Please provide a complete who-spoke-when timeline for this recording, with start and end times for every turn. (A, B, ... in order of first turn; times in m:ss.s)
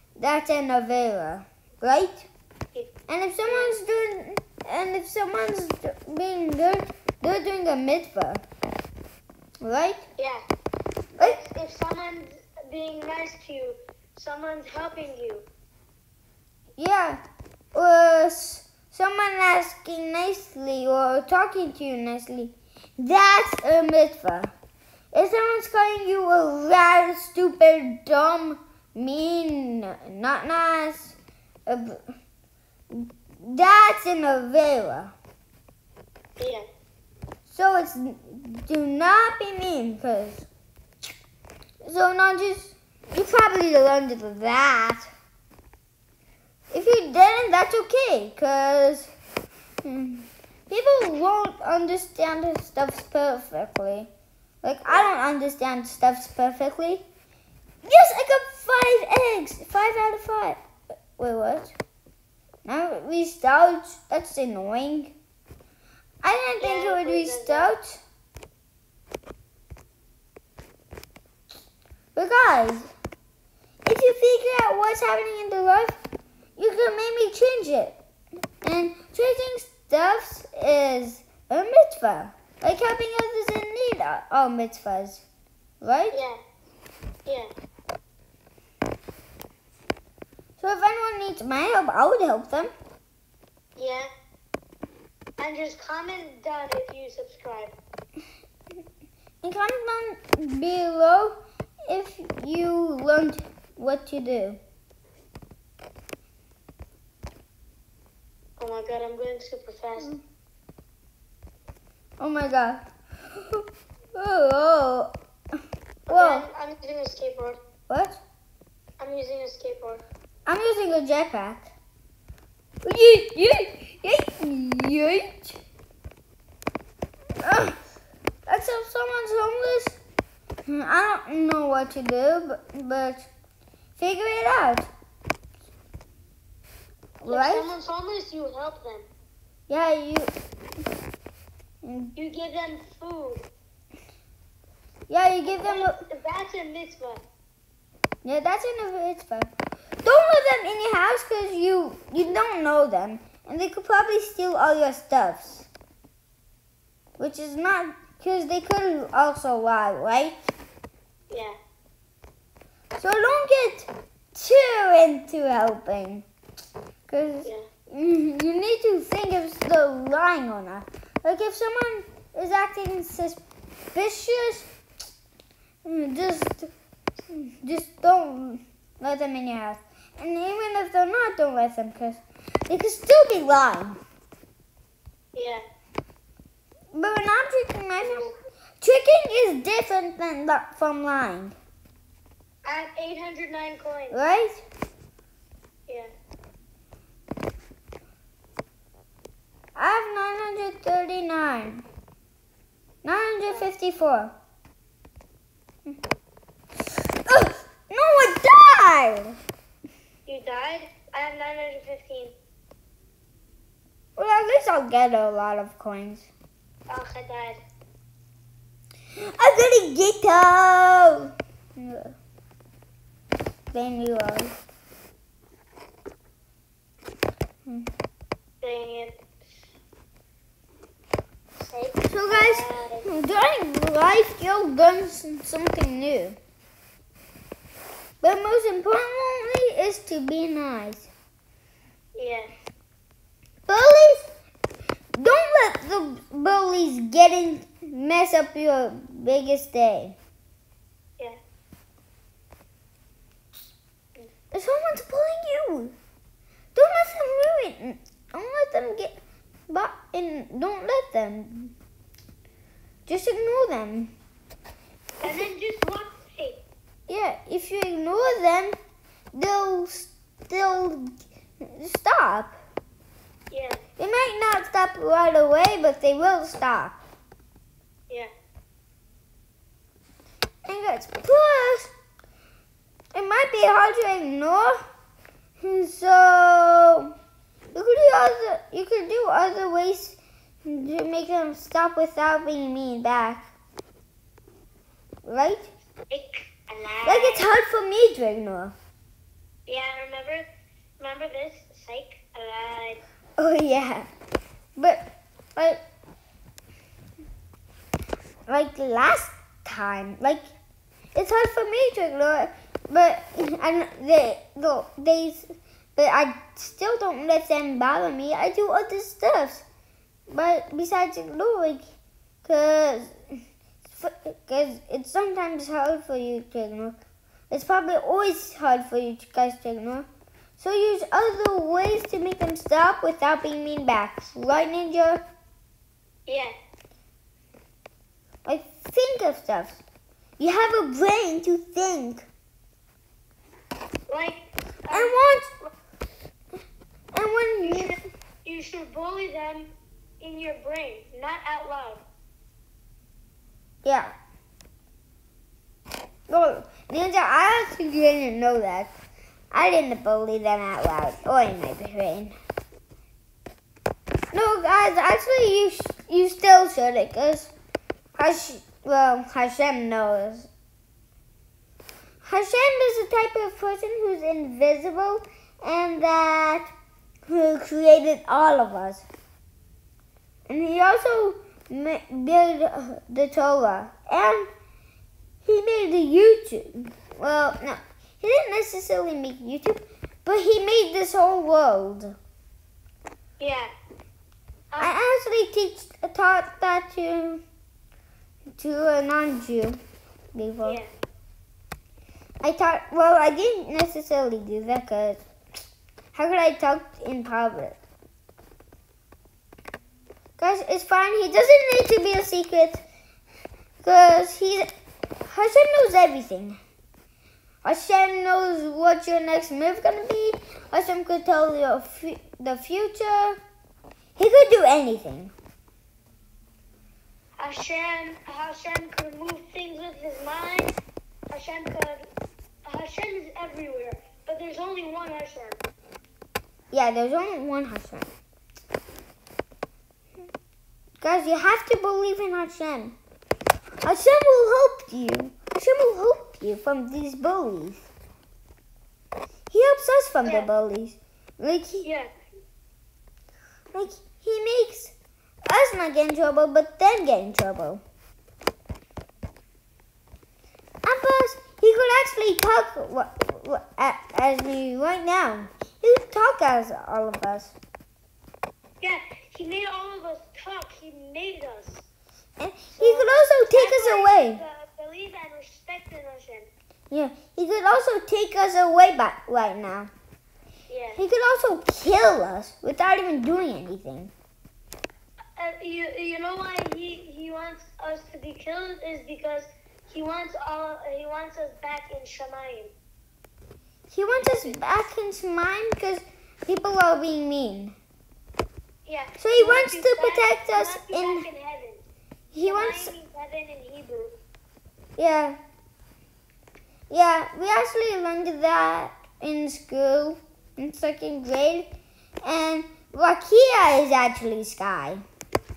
0:00.2-0:02.3 A
0:03.1-0:08.4 A
0:03.4-0:03.8 B
0:09.6-0:10.1 A
0:11.2-0:15.4 B
0:16.8-0:17.2 A
0:17.7-0:24.5 A
0:25.1-0:32.0 A
0:32.9-0:35.1 A
0:36.4-0:36.6 B
0:37.5-0:40.5 A
0:41.8-0:45.1 A
0:46.7-0:49.1 A
0:49.8-0:54.1 A
0:54.6-0:57.0 A
0:54.9-0:55.1 B
0:57.8-1:00.6 A
1:01.2-1:01.7 A
1:02.6-1:05.1 A
1:06.2-1:08.0 A
1:06.6-1:07.7 B
1:12.1-1:12.9 A
1:13.8-1:16.0 A
1:16.6-1:18.0 A
1:18.6-1:25.2 A
1:25.8-1:26.2 A
1:26.1-1:26.4 B
1:30.6-1:32.7 A
1:33.8-1:34.1 B
1:35.4-1:37.7 B
1:39.4-1:44.6 A
1:48.6-1:50.2 B
1:52.2-1:55.1 A
1:56.1-1:57.6 B
1:56.1-1:56.4 A
1:57.9-1:58.2 A
1:59.0-2:00.0 B
2:00.4-2:01.7 A
2:02.8-2:05.6 A
2:07.4-2:07.8 A
2:08.5-2:10.0 A
2:10.6-2:13.3 A
2:14.0-2:14.9 A
2:17.2-2:17.7 A
2:17.2-2:19.1 B
2:19.7-2:20.3 A
2:21.8-2:22.1 A
2:22.1-2:23.5 B
2:25.1-2:26.0 A
2:25.4-2:27.2 B
2:28.2-2:29.5 A
2:30.0-2:35.7 A
2:37.2-2:40.4 A
2:41.3-2:41.6 B
2:43.0-2:46.2 A
2:47.1-2:53.4 A
2:53.9-2:54.7 A
2:55.8-2:56.7 A
2:57.3-3:04.0 A
3:05.4-3:05.6 B
3:06.9-3:11.6 A
3:08.0-3:08.4 B
3:12.6-3:14.2 B
3:14.1-3:14.6 A
3:19.7-3:21.8 A
3:23.0-3:24.3 A
3:27.2-3:29.4 A
3:30.2-3:32.3 B
3:34.2-3:36.3 A
3:36.9-3:37.6 B
3:39.2-3:42.2 A
3:43.7-3:44.5 A
3:47.6-3:47.9 A
3:48.6-3:49.1 B
3:51.6-3:53.1 B
3:52.1-3:56.4 A
3:58.2-4:01.1 A
4:02.2-4:02.5 B
4:03.7-4:04.3 A
4:05.1-4:10.2 A
4:14.5-4:15.9 A
4:16.7-4:19.1 A
4:19.7-4:21.7 A
4:23.0-4:24.1 A
4:25.2-4:26.6 B
4:27.1-4:28.8 A
4:29.3-4:32.6 A
4:33.5-4:33.8 B
4:34.0-4:37.0 A
4:40.6-4:41.9 A
4:43.1-4:44.8 A
4:45.6-4:47.1 A
4:47.7-4:53.5 A
4:55.2-4:55.7 A
4:56.1-4:57.5 B
4:57.0-4:58.8 A
4:59.7-5:00.4 B
5:01.0-5:03.0 B
5:03.4-5:04.1 A
5:04.8-5:05.8 A
5:08.5-5:10.5 A
5:11.1-5:19.6 A
5:20.3-5:21.9 A
5:22.4-5:27.0 A
5:27.5-5:30.1 A
5:30.6-5:35.2 A
5:36.3-5:36.5 B
5:38.4-5:39.8 A
5:40.4-5:42.2 A
5:44.1-5:45.7 B
5:44.9-5:45.5 A
5:47.1-5:48.0 A
5:47.6-5:49.7 B
5:50.2-5:52.0 B
5:53.8-5:54.1 A
5:56.3-5:59.0 A
5:59.5-6:02.4 A
6:04.3-6:07.5 A
6:08.2-6:10.5 A
6:12.2-6:16.7 A
6:17.3-6:19.1 A
6:20.5-6:24.5 A
6:25.4-6:32.2 A
6:33.4-6:33.7 B
6:34.8-6:37.4 A
6:38.6-6:39.8 A
6:40.3-6:40.8 A
6:40.6-6:40.9 B
6:42.4-6:45.2 A
6:46.1-6:47.8 A
6:50.4-6:52.8 A
6:53.8-6:54.7 A
6:55.3-6:56.6 A
6:57.6-7:03.4 A
7:04.2-7:05.3 A
7:07.4-7:10.7 B
7:11.3-7:12.0 B
7:12.6-7:15.6 B
7:16.7-7:18.1 A
7:21.0-7:23.0 A
7:23.8-7:27.8 A
7:29.5-7:31.8 A
7:30.2-7:30.5 B
7:31.8-7:32.1 B
7:33.7-7:37.8 A
7:40.8-7:47.5 A
7:48.8-7:51.8 B
7:52.4-7:54.4 A
7:52.7-7:56.5 B
7:56.9-7:59.9 A
8:00.7-8:01.0 B
8:01.0-8:04.1 A
8:05.4-8:12.7 B
8:13.9-8:17.8 A
8:14.1-8:14.6 B
8:18.8-8:21.8 B
8:19.2-8:21.3 A
8:22.3-8:22.9 A
8:22.4-8:24.1 B
8:25.0-8:25.4 A
8:26.9-8:31.7 A
8:32.2-8:35.0 A